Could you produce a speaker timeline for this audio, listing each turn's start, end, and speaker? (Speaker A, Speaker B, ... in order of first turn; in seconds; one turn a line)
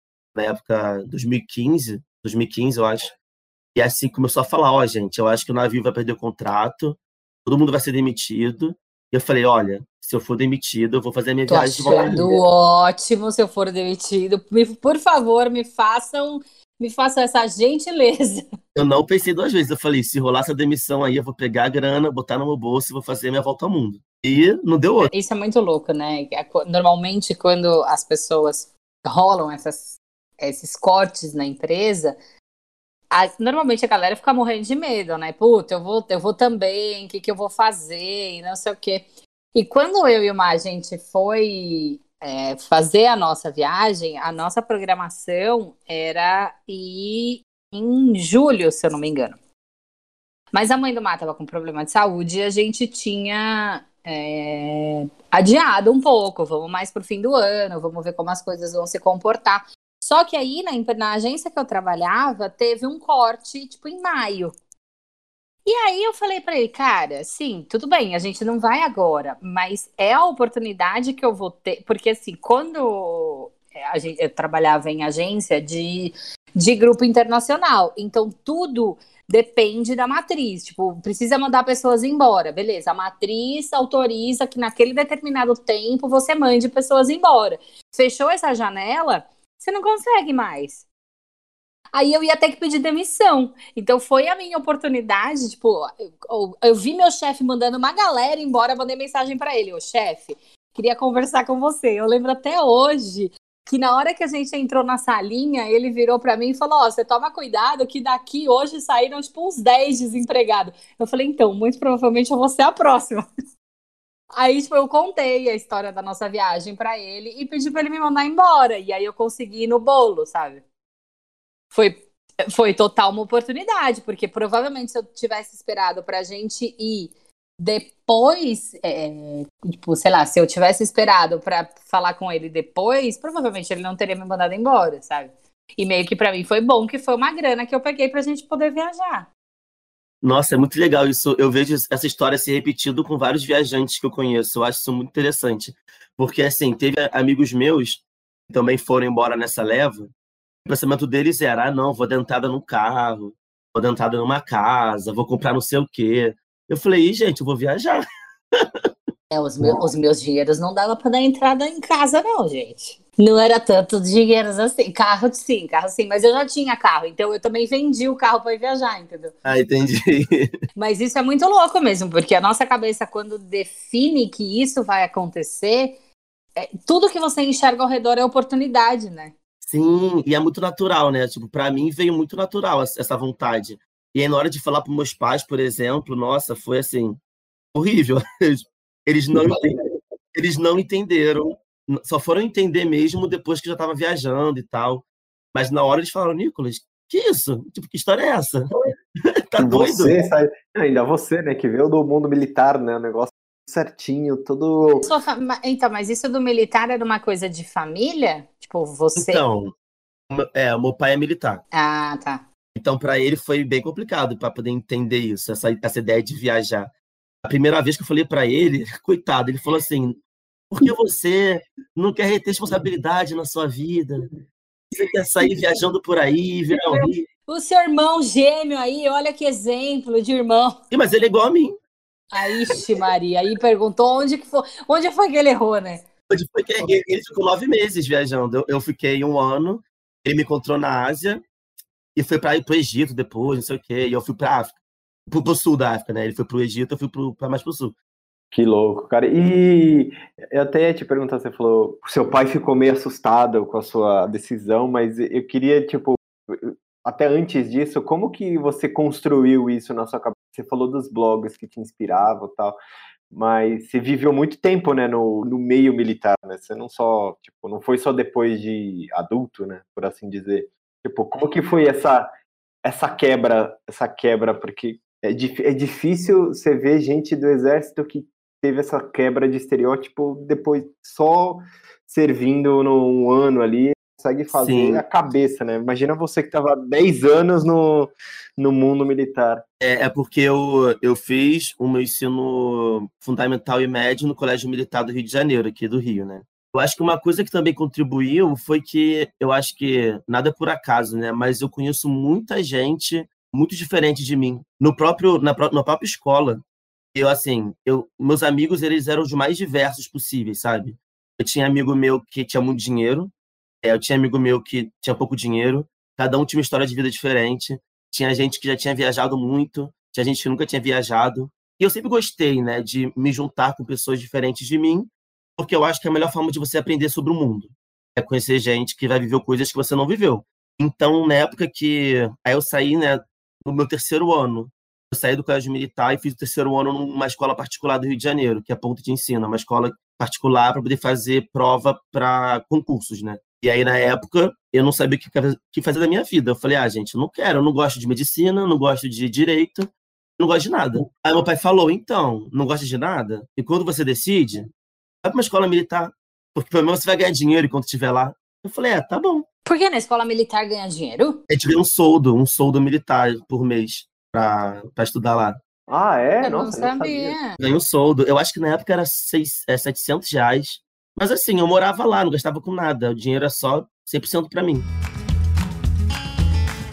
Speaker A: 0.3-3.1
Speaker A: 3.7-12.3
Speaker B: 11.5-18.4
Speaker A: 18.7-25.1
Speaker B: 25.1-32.2
Speaker B: 33.1-49.4
Speaker B: 50.5-64.5
Speaker B: 65.7-90.8
Speaker B: 91.9-113.2
Speaker B: 114.3-120.6
Speaker B: 121.7-139.3
Speaker A: 140.2-150.1
Speaker A: 150.6-158.9
Speaker B: 159.3-169.3
Speaker A: 169.4-170.5
Speaker B: 170.8-176.0
Speaker B: 176.6-179.3
Speaker A: 179.6-187.2
Speaker A: 187.7-189.7
Speaker A: 190.3-198.7
Speaker A: 199.5-200.1
Speaker C: 199.6-205.1
Speaker B: 205.0-209.4
Speaker A: 209.2-209.7
Speaker A: 210.3-211.6
Speaker B: 211.7-212.4
Speaker A: 212.7-216.9
Speaker A: 217.4-220.2
Speaker A: 220.7-224.2
Speaker A: 224.9-227.3
Speaker B: 226.9-230.8
Speaker A: 230.9-231.8
Speaker B: 232.3-236.0
Speaker A: 236.3-241.4
Speaker A: 242.1-247.9
Speaker C: 248.5-262.8
Speaker C: 263.3-272.3
Speaker C: 272.8-289.6
Speaker A: 284.5-285.0
Speaker A: 289.8-306.6
Speaker A: 307.1-354.7
Speaker A: 355.2-359.4
Speaker B: 359.6-361.4
Speaker A: 361.5-365.6
Speaker C: 365.9-367.4
Speaker B: 366.4-367.6
Speaker A: 367.6-374.9